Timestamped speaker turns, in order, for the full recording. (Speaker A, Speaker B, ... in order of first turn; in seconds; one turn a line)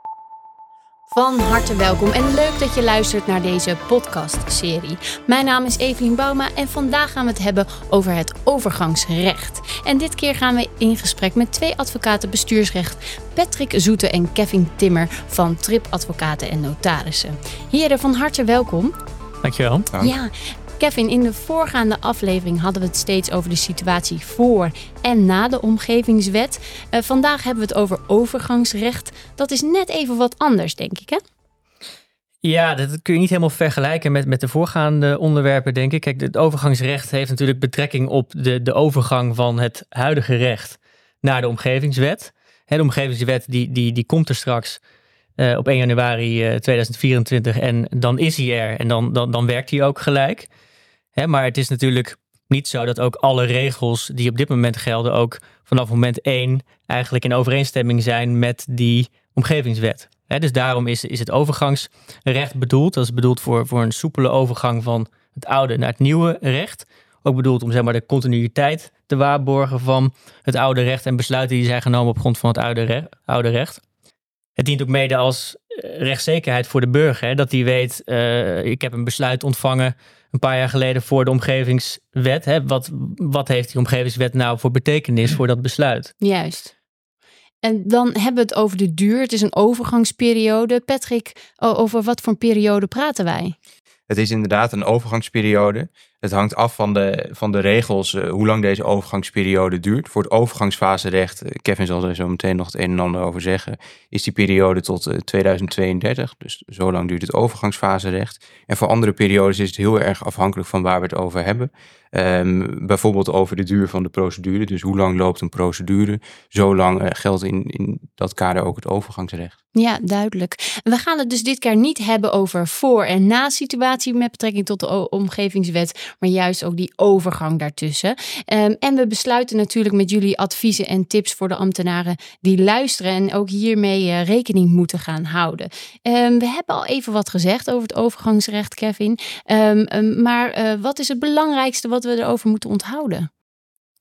Speaker A: 1.1-18.9
Speaker B: 19.4-19.9
Speaker A: 20.0-31.2
Speaker B: 32.4-44.8
Speaker B: 45.4-50.5
Speaker B: 51.1-73.8
Speaker B: 74.6-86.1
Speaker A: 86.2-86.7
Speaker A: 87.6-93.5
Speaker C: 94.1-119.5
Speaker A: 119.7-143.3